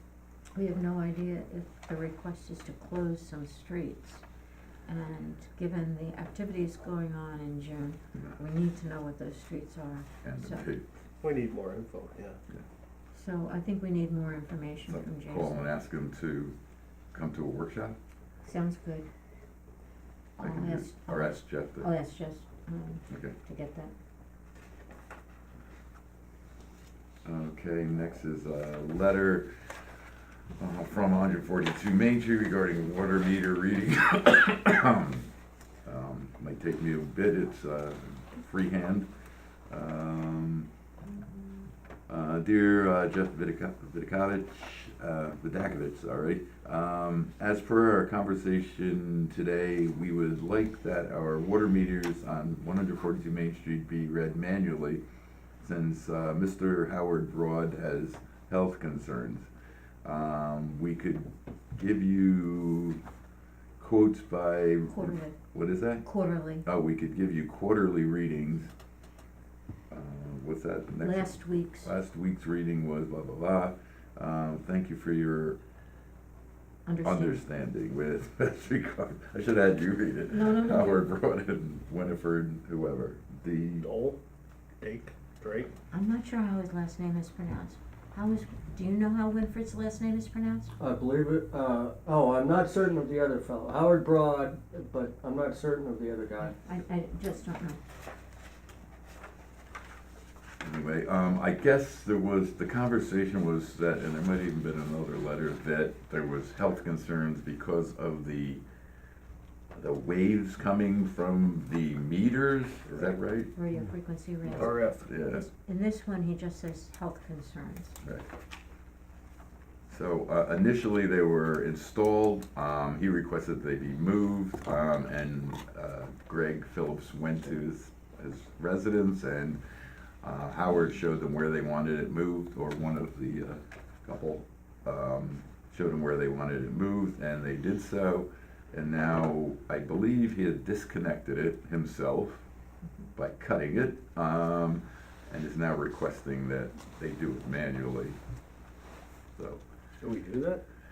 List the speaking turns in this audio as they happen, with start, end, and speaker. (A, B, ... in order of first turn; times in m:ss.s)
0:00.5-0:04.2 A
0:04.9-0:10.7 A
0:10.2-0:10.9 B
0:11.2-0:12.4 C
0:13.1-0:15.6 A
0:14.9-0:16.6 B
0:17.1-0:18.0 B
0:18.4-0:19.1 A
0:20.4-0:23.9 A
0:20.4-0:21.9 B
0:23.1-0:23.3 B
0:27.2-0:30.0 B
0:30.6-0:35.3 B
0:35.8-0:39.1 B
0:39.7-0:40.7 B
0:41.1-0:41.5 A
0:42.1-0:55.0 B
0:55.6-0:59.5 B
1:00.0-1:03.0 B
1:03.8-1:06.0 B
1:04.9-1:05.4 A
1:06.0-1:06.6 A
1:06.6-1:08.7 B
1:09.9-1:15.6 B
1:11.0-1:11.9 A
1:16.8-1:17.4 A
1:17.0-1:23.9 B
1:20.3-1:21.1 A
1:23.8-1:24.2 C
1:24.8-1:25.7 C
1:25.9-1:30.7 A
1:30.8-1:36.5 D
1:36.4-1:37.8 A
1:40.6-1:48.6 B
1:49.7-1:53.5 B
1:53.5-1:58.0 A
1:54.4-1:55.0 C
1:54.5-1:55.5 B
1:59.9-2:09.6 B
2:10.2-2:22.4 B
2:23.1-2:28.2 B
2:29.4-2:29.6 B
2:30.0-2:30.6 C